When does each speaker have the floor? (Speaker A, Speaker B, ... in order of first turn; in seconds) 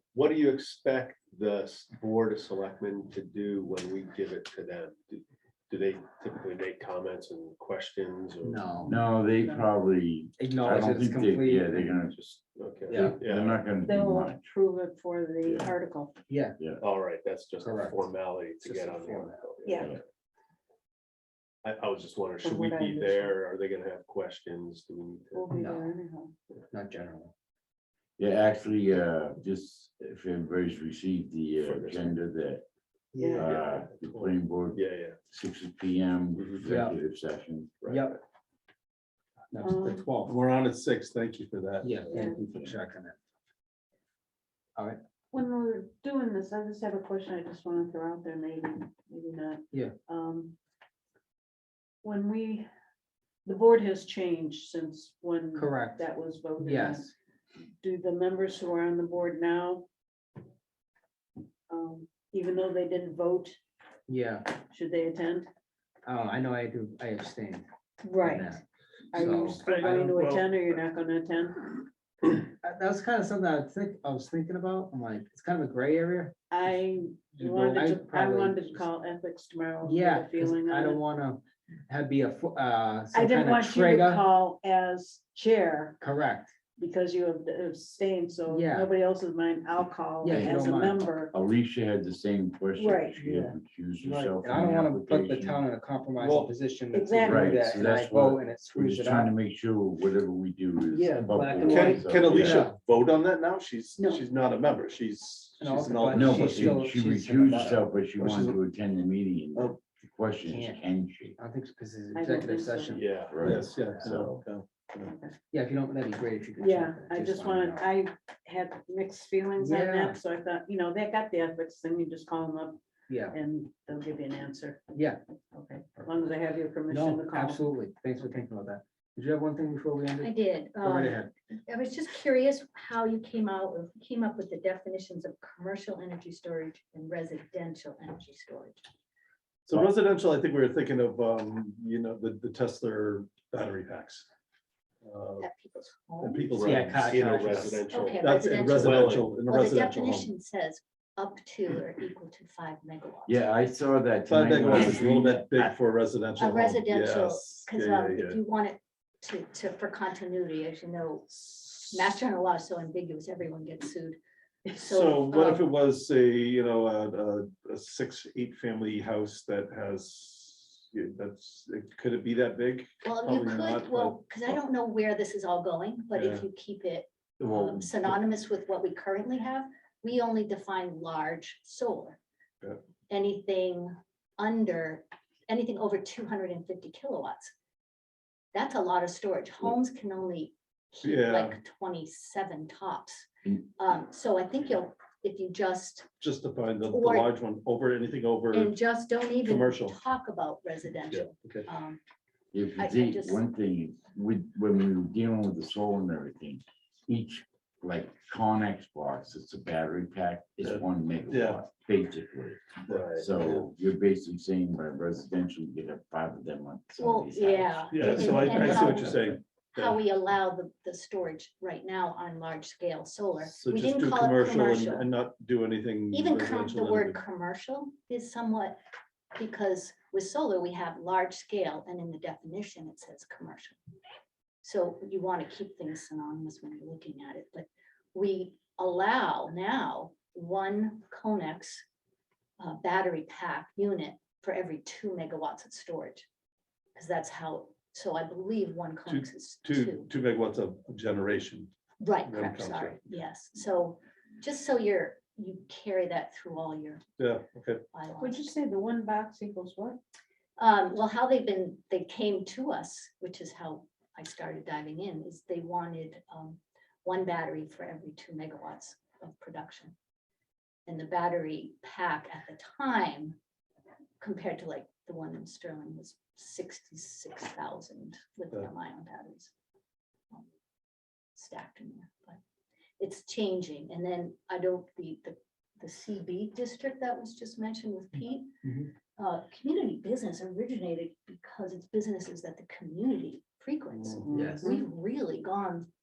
Speaker A: 0.1-8.8, 12.2-13.6, 16.8-20.0, 21.6-25.5, 31.6-32.2, 33.4-35.2, 36.4-36.7, 37.8-38.1, 112.9-113.4, 146.5-149.3, 212.9-213.3
Speaker B: 8.4-9.0, 10.4-11.9, 12.9-13.2, 16.3-16.6, 17.6-18.0, 18.6-19.4, 25.6-25.9, 26.7-27.3, 33.1-33.5, 36.7-37.0, 37.9-38.1, 39.5-40.4, 41.8-43.2, 55.5-56.1, 56.6-57.1, 64.1-64.5, 66.1-67.7, 68.2-68.6, 69.1-69.6, 72.4-76.3, 77.4-78.8, 79.8-84.3, 86.0-86.5, 88.5-88.9, 90.2-91.0, 94.0-99.3, 100.9-102.8, 105.6-107.8, 110.5-110.8, 111.4-114.1, 115.5-117.9, 119.6-120.2, 123.1-123.4, 124.9-125.2, 126.9-131.3, 146.6-147.8, 294.3-294.7
Speaker C: 8.9-12.3, 12.9-14.4, 15.4-15.7, 16.6-16.9, 28.2-32.6, 33.3-37.9, 42.4-42.7, 90.3-90.7, 91.3-95.6, 97.2-102.4, 106.1-111.3, 113.2-114.4, 153.3-155.8, 202.5-218.7
Speaker D: 13.8-16.2, 19.6-19.9, 22.4-23.3, 25.3-26.3, 33.2-33.5, 39.6-40.1, 42.1-42.4, 45.3-50.5, 52.0-52.7, 53.5-57.1, 57.8-59.9, 61.7-63.6, 64.6-65.5, 68.0-68.6, 69.1-71.9, 76.5-81.0, 83.1-86.0, 86.8-91.3, 92.8-93.5, 96.9-97.6, 104.0-104.2, 112.1-113.1, 115.0-115.3, 116.6-122.8, 123.3-124.9, 125.5-127.6, 258.2-260.0, 294.2-294.8
Speaker E: 40.2-42.0, 69.6-70.7, 96.2-96.5, 101.6-106.8, 107.5-108.6, 113.4-115.1, 139.7-144.3, 145.0-145.5, 146.2-150.3, 154.3-158.4, 164.8-174.2, 176.2-176.4, 191.0-191.6, 196.2-198.7, 199.5-199.9, 201.1-201.7, 210.6-211.6, 212.9-213.7, 217.9-220.0, 223.5-227.2, 249.1-251.7, 252.3-253.0, 257.2-257.8
Speaker F: 130.2-138.8, 145.4-146.5, 147.9-153.4, 156.4-165.7, 173.0-182.2, 183.1-187.5, 188.5-196.1, 196.9-197.3, 198.5-202.0, 202.8-203.4, 217.0-225.1, 226.1-228.8, 229.3-233.8, 234.6-241.8, 242.6-246.2, 246.9-250.1, 252.0-257.0, 257.9-258.4, 260.6-269.9, 270.9-273.4, 274.2-279.5, 281.4-282.4, 283.0-288.5, 289.2-295.9